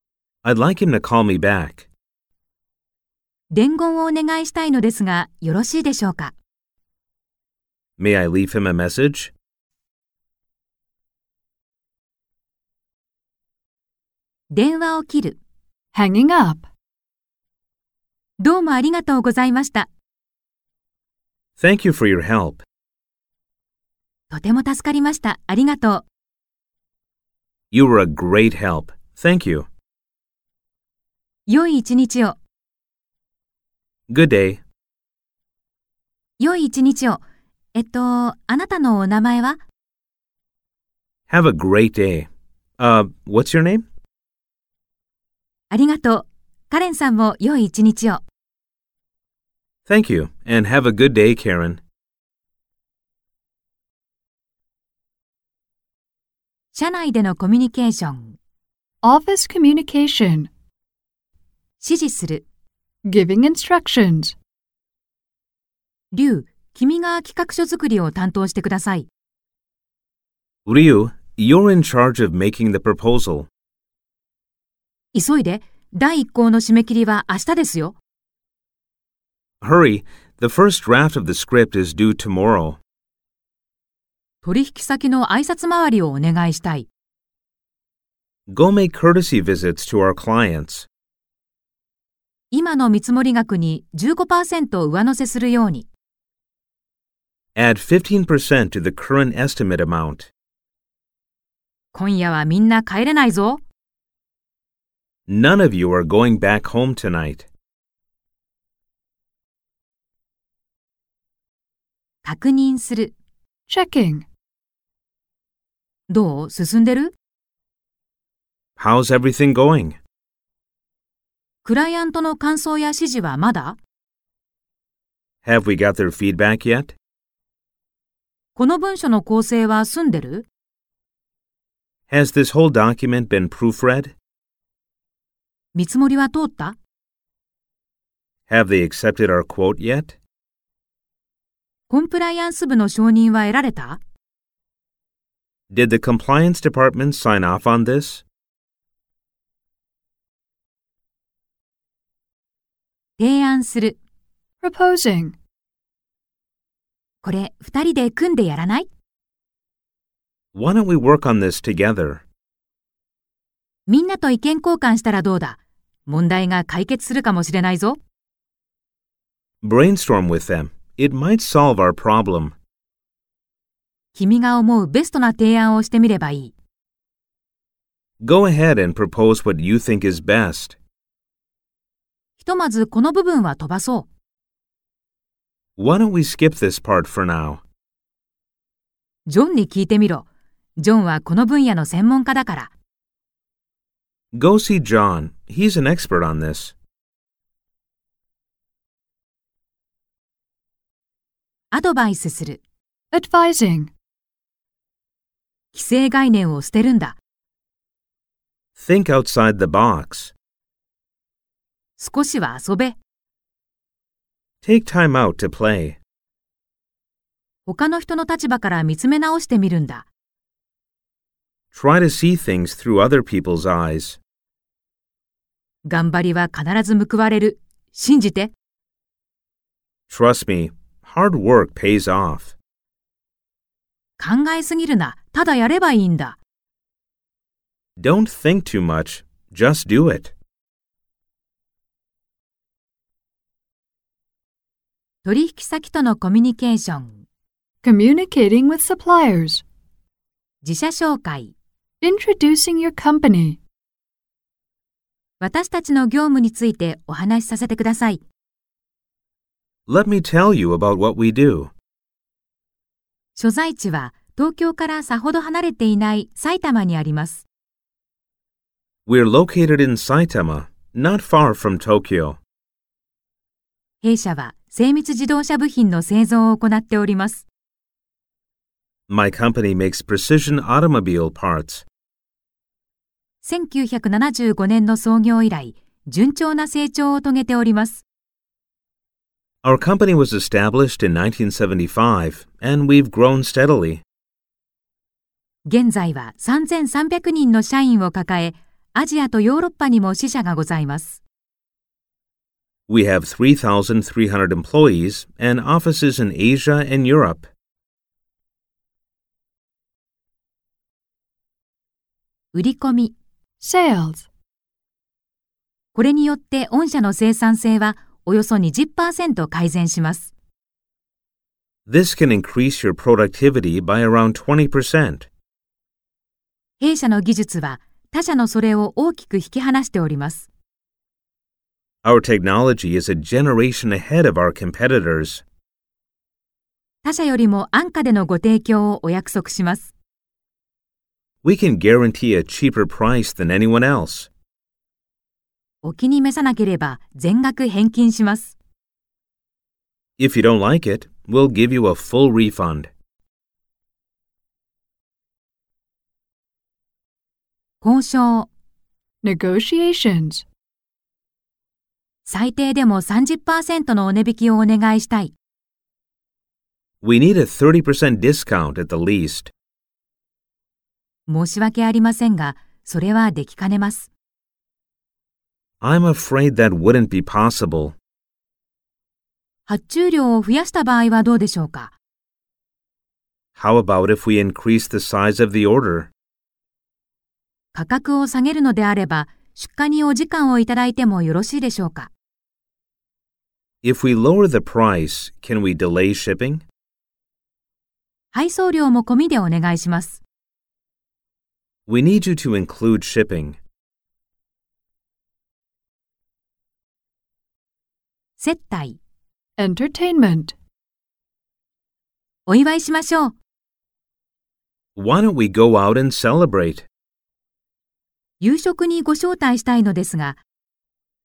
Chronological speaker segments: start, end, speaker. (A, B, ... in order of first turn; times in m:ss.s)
0:00.4-0:01.9 A
0:03.5-0:06.3 B
0:08.0-0:09.3 A
0:14.5-0:15.4 B
0:15.9-0:16.7 C
0:18.4-0:19.9 B
0:21.6-0:22.6 A
0:24.3-0:26.0 B
0:27.7-0:29.7 A
0:31.5-0:32.4 B
0:34.1-0:34.6 A
0:36.4-0:37.2 B
0:37.8-0:39.6 B
0:41.3-0:42.3 A
0:42.8-0:43.8 A
0:45.7-0:48.2 B
0:49.9-0:51.8 A
0:56.7-0:58.4 B
0:59.0-1:00.5 C
1:01.8-1:02.4 B
1:03.0-1:04.4 C
1:06.1-1:09.1 B
1:10.7-1:13.5 A
1:15.1-1:18.0 B
1:19.6-1:22.8 A
1:24.4-1:26.9 B
1:28.5-1:30.9 A
1:32.5-1:35.9 B
1:37.6-1:40.3 A
1:41.9-1:43.6 B
1:45.3-1:47.5 A
1:52.2-1:53.1 B
1:53.7-1:54.3 C
1:56.1-1:57.2 B
1:58.8-2:00.0 A
2:01.6-2:03.8 B
2:05.4-2:07.0 A
2:08.6-2:10.5 B
2:12.1-2:14.2 A
2:15.7-2:16.8 B
2:18.5-2:20.2 A
2:21.9-2:24.0 B
2:25.7-2:28.2 A
2:33.2-2:34.0 B
2:34.6-2:35.4 C
2:37.2-2:38.9 B
2:40.5-2:42.2 A
2:43.9-2:48.0 B
2:49.6-2:52.6 A
2:54.2-2:56.5 B
2:58.2-3:00.8 A
3:02.4-3:04.1 B
3:05.8-3:07.6 A
3:09.3-3:10.3 B
3:10.8-3:12.7 B
3:14.3-3:16.8 A
3:21.7-3:22.6 B
3:23.1-3:23.9 C
3:25.7-3:27.2 B
3:28.8-3:30.3 A
3:32.0-3:33.0 B
3:34.6-3:36.0 A
3:37.7-3:40.1 B
3:41.7-3:44.2 A
3:45.9-3:48.5 B
3:50.1-3:52.6 A
3:54.2-3:56.4 B
3:58.0-4:00.3 A
4:05.2-4:07.2 B
4:07.8-4:09.6 C
4:10.6-4:11.5 B
4:12.0-4:13.6 C
4:15.4-4:18.2 B
4:19.9-4:21.7 A
4:23.4-4:27.5 B
4:29.1-4:32.4 A
4:34.0-4:37.5 B
4:39.1-4:41.9 A
4:43.4-4:48.0 B
4:49.6-4:54.0 A
4:55.7-5:01.2 B
5:02.9-5:07.5 A
5:12.5-5:13.2 B
5:13.6-5:14.3 C
5:16.0-5:20.3 B
5:21.9-5:25.3 A
5:26.8-5:30.5 B
5:32.0-5:35.4 A
5:37.0-5:39.9 B
5:41.4-5:44.3 A
5:45.8-5:48.6 B
5:50.2-5:52.9 A
5:57.8-5:58.5 B
5:59.2-6:00.4 C
6:02.3-6:05.3 B
6:07.0-6:09.5 A
6:11.3-6:14.1 B
6:15.8-6:18.0 A
6:19.7-6:21.9 B
6:23.6-6:26.1 A
6:27.7-6:32.1 B
6:33.8-6:36.6 A
6:38.3-6:40.2 B
6:41.9-6:43.6 A
6:48.4-6:49.0 B
6:49.6-6:50.6 C
6:52.5-6:53.4 B
6:55.0-6:56.9 A
6:58.4-7:00.4 B